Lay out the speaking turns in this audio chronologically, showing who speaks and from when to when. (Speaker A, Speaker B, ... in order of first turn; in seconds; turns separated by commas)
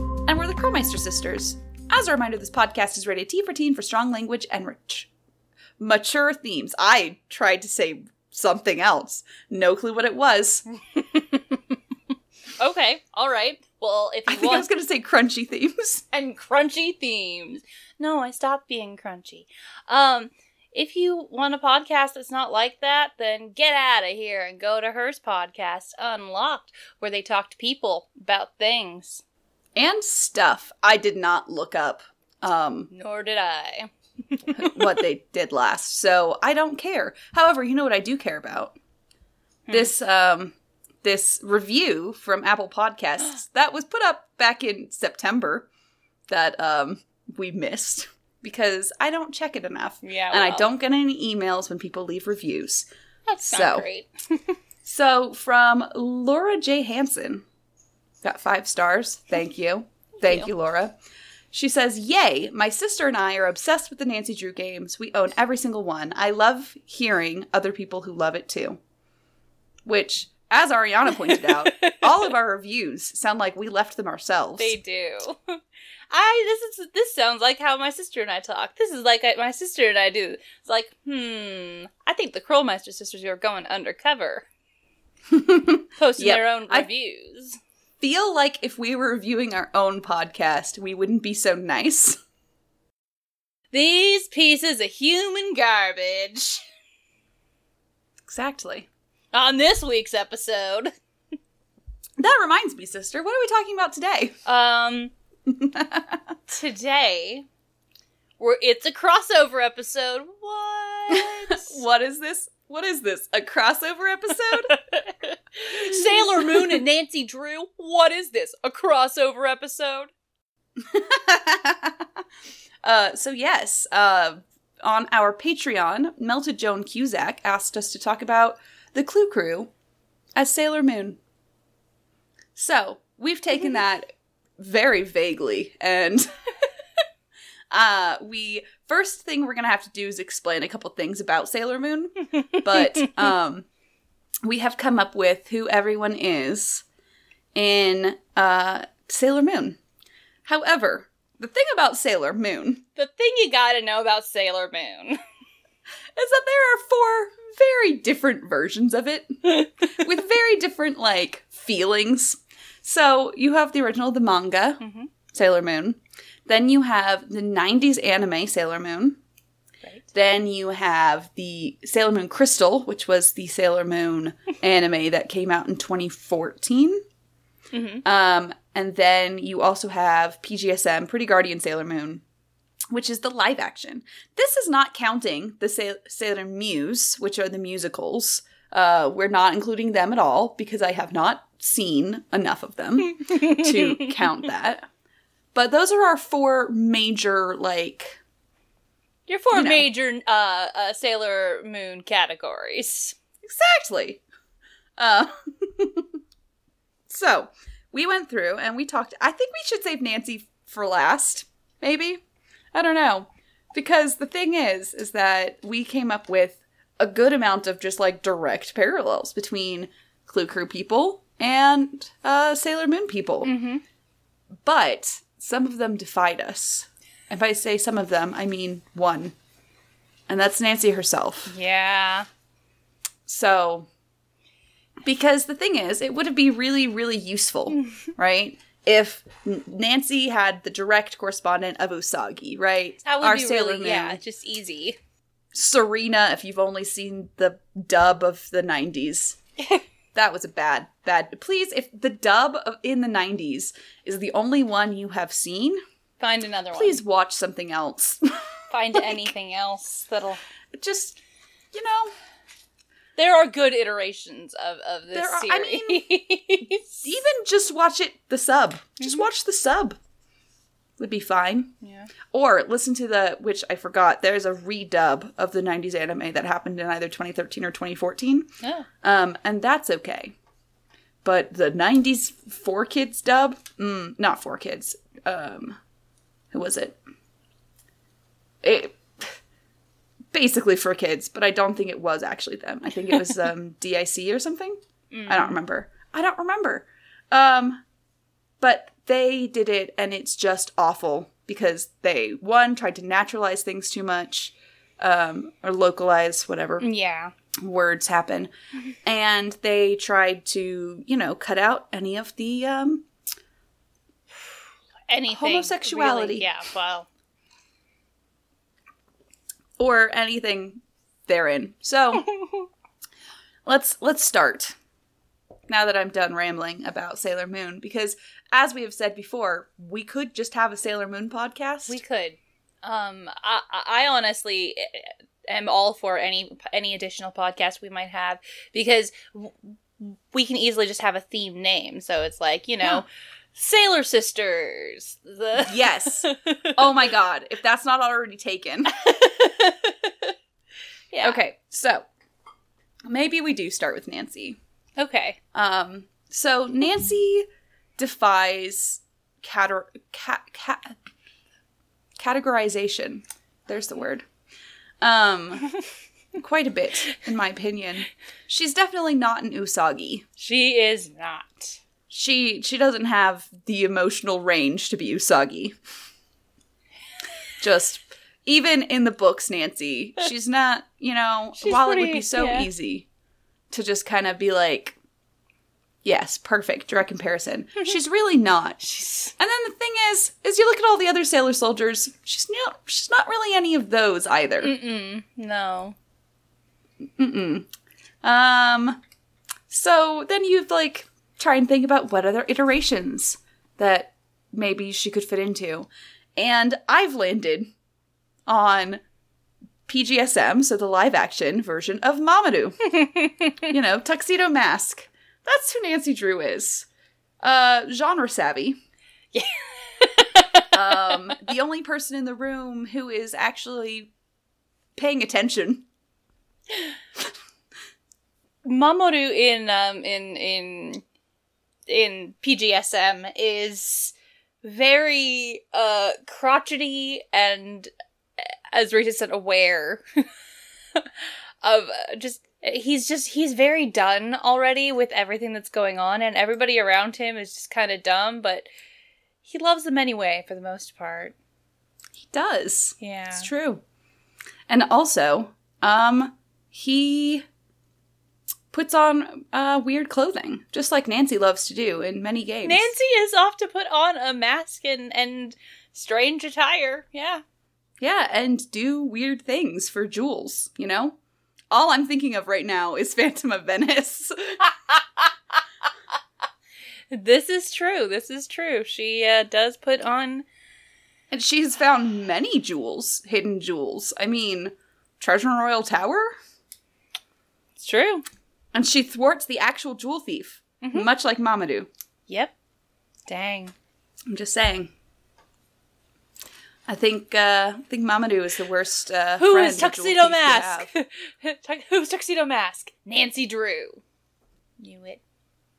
Speaker A: 0.3-5.1, Speaker A: 5.8-10.7, Speaker B: 10.9-11.6, Speaker B: 12.6-14.7, Speaker A: 14.3-16.0, Speaker B: 16.1-29.2, Speaker A: 29.8-32.9, Speaker B: 32.9-34.9, Speaker A: 34.5-38.8, Speaker A: 39.7-45.7, Speaker A: 46.3-52.9, Speaker B: 50.0-50.7, Speaker B: 53.3-54.5, Speaker A: 53.4-53.9, Speaker A: 54.8-57.5, Speaker A: 58.2-61.0, Speaker B: 60.2-60.5, Speaker A: 61.5-68.8, Speaker A: 69.9-74.7, Speaker B: 71.2-72.1, Speaker B: 74.6-84.5, Speaker A: 85.3-86.9, Speaker B: 86.0-87.6, Speaker A: 88.0-92.2, Speaker B: 93.7-96.6, Speaker A: 98.3-98.9, Speaker B: 99.3-100.9, Speaker A: 102.2-104.4, Speaker B: 104.5-105.1, Speaker A: 105.5-106.2, Speaker B: 106.5-107.5, Speaker B: 108.4-111.8, Speaker A: 111.1-114.8, Speaker B: 114.6-120.1, Speaker A: 115.9-116.8, Speaker A: 120.8-122.1, Speaker A: 122.8-129.7, Speaker A: 130.4-131.2, Speaker A: 132.6-136.3, Speaker A: 137.7-143.7, Speaker B: 142.6-143.2, Speaker A: 144.4-146.8, Speaker A: 147.6-149.8, Speaker A: 150.5-152.8, Speaker B: 153.0-155.2, Speaker A: 156.2-164.8, Speaker B: 164.8-165.1, Speaker A: 165.3-169.2, Speaker A: 170.1-177.0, Speaker B: 177.7-178.0, Speaker A: 178.0-182.2, Speaker A: 182.9-194.9, Speaker B: 193.2-194.0, Speaker A: 195.5-198.2, Speaker B: 199.3-203.2, Speaker A: 199.5-199.9, Speaker A: 203.4-204.2, Speaker A: 205.0-206.2, Speaker A: 207.1-212.2, Speaker A: 212.7-223.5, Speaker B: 223.4-223.8, Speaker A: 224.6-229.3, Speaker A: 230.3-231.5, Speaker B: 231.5-232.3, Speaker A: 233.3-233.9, Speaker A: 235.1-244.2, Speaker B: 243.1-245.0, Speaker A: 245.5-249.4, Speaker A: 250.2-255.8, Speaker B: 256.2-257.0, Speaker A: 256.7-258.3, Speaker B: 258.7-260.4, Speaker A: 260.8-261.2, Speaker A: 261.7-262.1, Speaker B: 263.2-267.1, Speaker A: 265.1-266.1, Speaker A: 267.0-270.0, Speaker A: 271.0-271.7, Speaker B: 271.8-272.1, Speaker A: 272.3-278.5, Speaker B: 278.6-278.9, Speaker A: 279.0-280.4, Speaker A: 281.2-285.8, Speaker A: 286.5-287.0, Speaker A: 288.6-289.3, Speaker A: 290.3-297.8, Speaker B: 295.1-295.6, Speaker A: 298.6-306.9, Speaker B: 306.8-307.3, Speaker A: 307.6-308.5, Speaker A: 309.0-313.1, Speaker B: 315.1-317.1, Speaker A: 315.3-316.5, Speaker A: 319.8-322.3, Speaker A: 323.7-324.8, Speaker A: 325.7-332.0, Speaker B: 331.9-346.8, Speaker A: 345.5-348.9, Speaker B: 348.9-350.3, Speaker B: 351.1-351.4, Speaker A: 351.2-352.1, Speaker A: 353.1-354.6, Speaker B: 355.0-355.4, Speaker A: 355.5-357.5, Speaker A: 358.0-361.0, Speaker A: 362.2-364.3, Speaker A: 365.0-365.7, Speaker A: 366.4-370.2, Speaker B: 370.4-371.8, Speaker A: 372.1-375.8, Speaker A: 377.6-383.1, Speaker B: 381.6-382.7, Speaker A: 383.7-385.0, Speaker A: 386.0-388.8, Speaker B: 388.8-389.3, Speaker A: 389.4-394.7, Speaker B: 394.6-396.0, Speaker A: 397.1-397.7, Speaker A: 398.2-399.0, Speaker A: 399.7-407.7, Speaker A: 408.5-409.0, Speaker A: 409.9-413.0, Speaker B: 413.0-413.6, Speaker A: 413.6-416.9, Speaker A: 417.4-418.8, Speaker B: 419.3-421.3, Speaker A: 420.7-424.1, Speaker A: 425.0-425.9, Speaker B: 428.6-431.0, Speaker B: 431.9-440.0, Speaker B: 441.6-448.7, Speaker B: 449.4-451.4, Speaker A: 452.2-453.8, Speaker B: 453.0-453.5, Speaker A: 454.7-457.5, Speaker A: 458.7-462.9, Speaker B: 462.6-467.4, Speaker A: 468.0-471.2, Speaker A: 471.7-474.7, Speaker B: 477.1-480.4, Speaker A: 481.3-486.4, Speaker B: 487.8-488.2, Speaker A: 488.7-491.9, Speaker B: 490.8-491.1, Speaker B: 492.3-492.5, Speaker B: 493.3-493.7, Speaker A: 494.3-494.9, Speaker A: 496.9-500.9, Speaker B: 499.4-504.0, Speaker B: 504.8-505.2